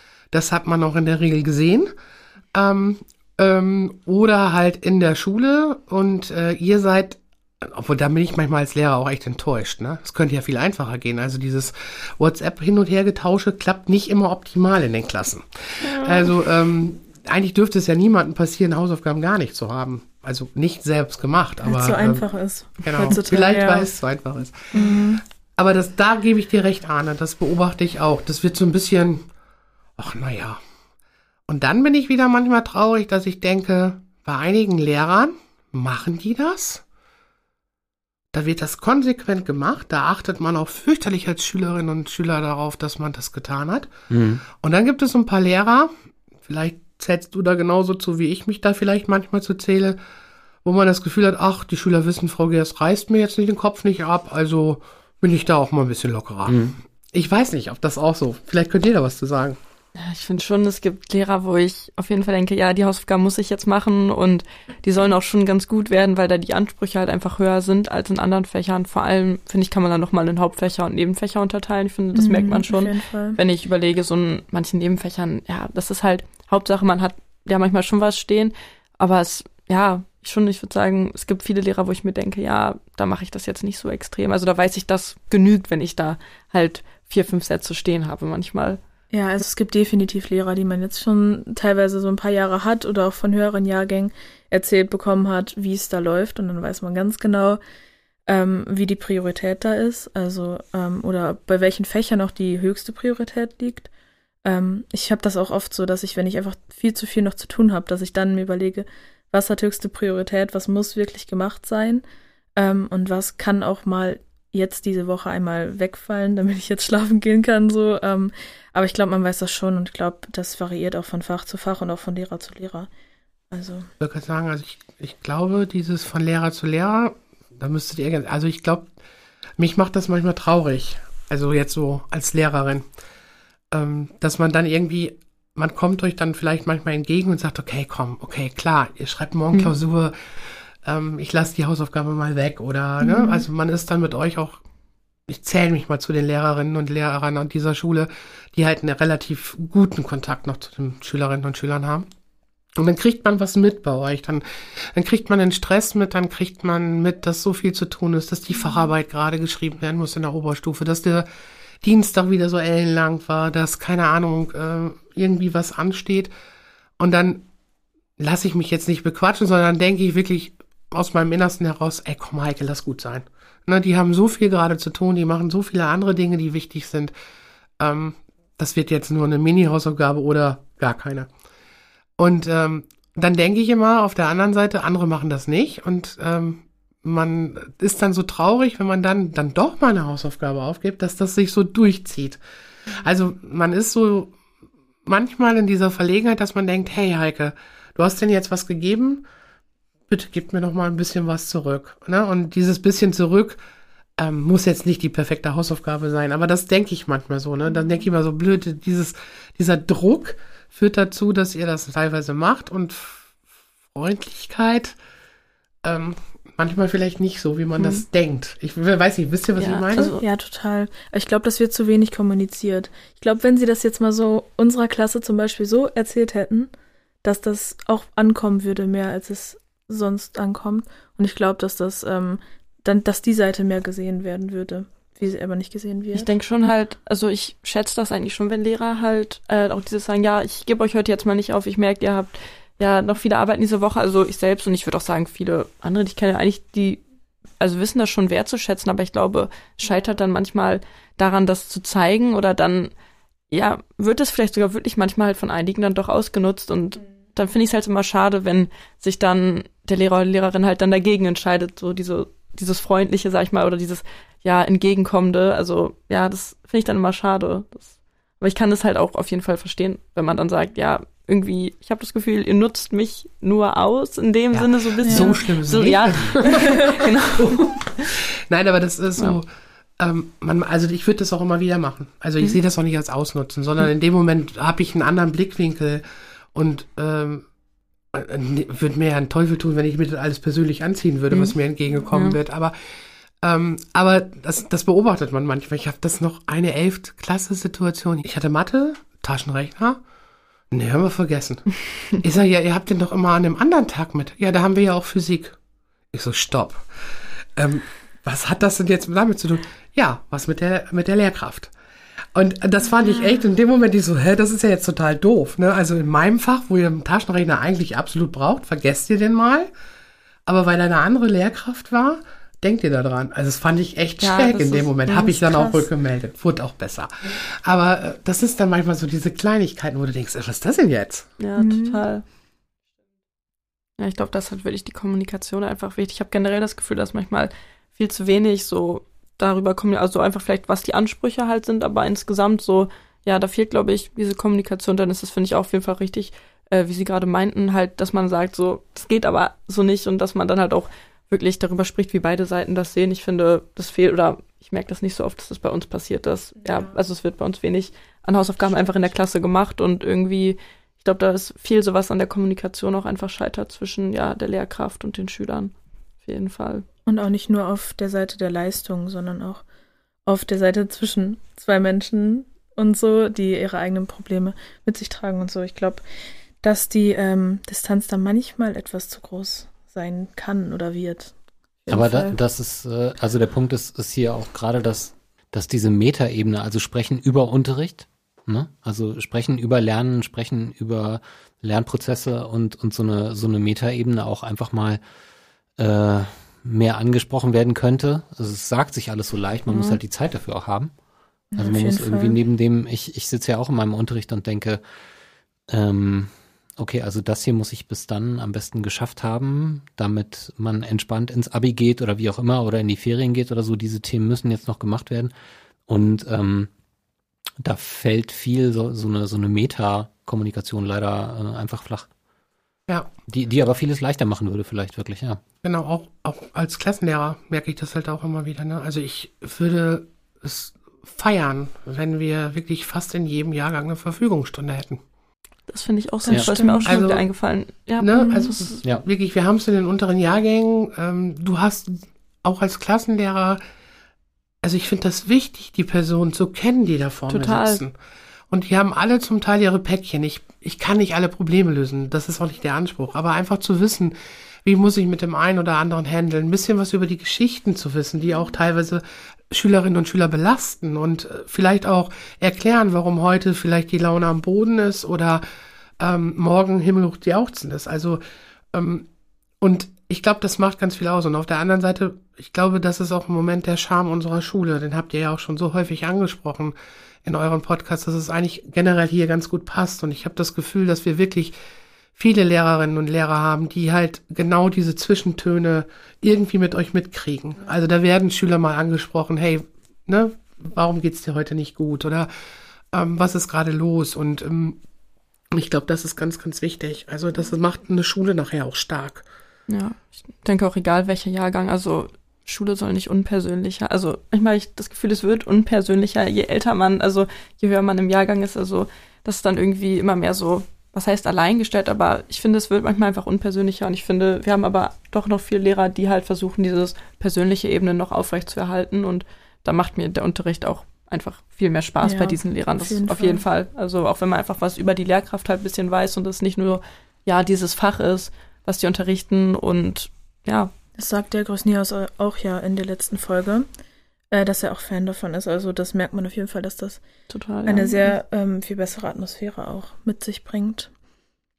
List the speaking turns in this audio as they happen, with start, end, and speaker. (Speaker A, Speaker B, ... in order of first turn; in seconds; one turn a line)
Speaker A: 0.3-1.9
Speaker A: 2.5-22.2
Speaker B: 15.8-16.3
Speaker C: 21.6-23.9
Speaker A: 22.8-29.2
Speaker C: 24.7-25.2
Speaker A: 30.0-30.6
Speaker A: 31.5-36.8
Speaker A: 38.3-43.9
Speaker D: 44.1-44.4
Speaker A: 44.6-45.9
Speaker A: 46.5-50.0
Speaker A: 50.6-56.6
Speaker D: 56.5-56.8
Speaker A: 57.1-59.6
Speaker B: 59.9-88.8
Speaker C: 72.1-73.4
Speaker C: 89.1-97.6
Speaker C: 98.3-103.9
Speaker C: 104.4-112.0
Speaker C: 112.6-122.9
Speaker C: 123.5-123.9
Speaker A: 124.0-128.9
Speaker A: 129.6-132.8
Speaker A: 133.7-144.6
Speaker C: 143.0-143.4
Speaker A: 145.3-152.1
Speaker A: 152.8-161.3
Speaker A: 161.8-166.3
Speaker A: 167.0-167.4
Speaker A: 168.2-177.1
Speaker A: 177.8-181.3
Speaker A: 182.2-192.4
Speaker A: 193.0-194.4
Speaker A: 195.0-199.2
Speaker A: 200.1-203.6
Speaker A: 204.2-213.2
Speaker A: 213.9-214.9
Speaker A: 215.8-220.2
Speaker B: 217.8-218.0
Speaker B: 219.6-220.2
Speaker C: 220.2-226.7
Speaker C: 227.2-236.3
Speaker B: 236.1-247.0
Speaker B: 247.6-252.9
Speaker B: 253.5-277.9
Speaker A: 274.5-279.4
Speaker C: 275.0-275.3
Speaker A: 280.0-287.4
Speaker A: 288.1-292.7
Speaker B: 291.3-291.5
Speaker B: 292.1-292.4
Speaker A: 293.4-300.0
Speaker A: 300.7-305.6
Speaker A: 306.1-306.9
Speaker A: 307.6-311.7
Speaker A: 312.3-319.7
Speaker A: 320.5-331.3
Speaker B: 324.2-324.9
Speaker C: 325.1-325.9
Speaker B: 331.4-332.2
Speaker C: 331.6-332.1
Speaker B: 334.0-366.9
Speaker C: 367.1-369.6
Speaker C: 370.2-376.0
Speaker C: 376.6-382.4
Speaker D: 381.9-395.0
Speaker D: 395.8-400.9
Speaker B: 399.7-400.0
Speaker C: 401.5-402.4
Speaker D: 401.6-404.8
Speaker D: 405.7-415.3
Speaker D: 415.9-416.7
Speaker D: 417.6-422.1
Speaker D: 423.3-425.4
Speaker A: 425.6-435.0
Speaker B: 435.7-438.7
Speaker C: 436.2-437.0
Speaker A: 436.8-437.2
Speaker A: 438.0-443.6
Speaker C: 438.1-438.5
Speaker A: 444.6-447.9
Speaker B: 447.3-447.8
Speaker A: 448.5-465.4
Speaker A: 466.0-468.2
Speaker A: 468.7-469.1
Speaker A: 469.6-481.5
Speaker A: 482.1-492.3
Speaker A: 492.9-494.8
Speaker A: 495.5-499.2
Speaker B: 499.7-530.7
Speaker C: 522.0-523.4
Speaker C: 531.0-533.7
Speaker C: 534.3-537.0
Speaker B: 537.3-538.1
Speaker C: 537.6-540.9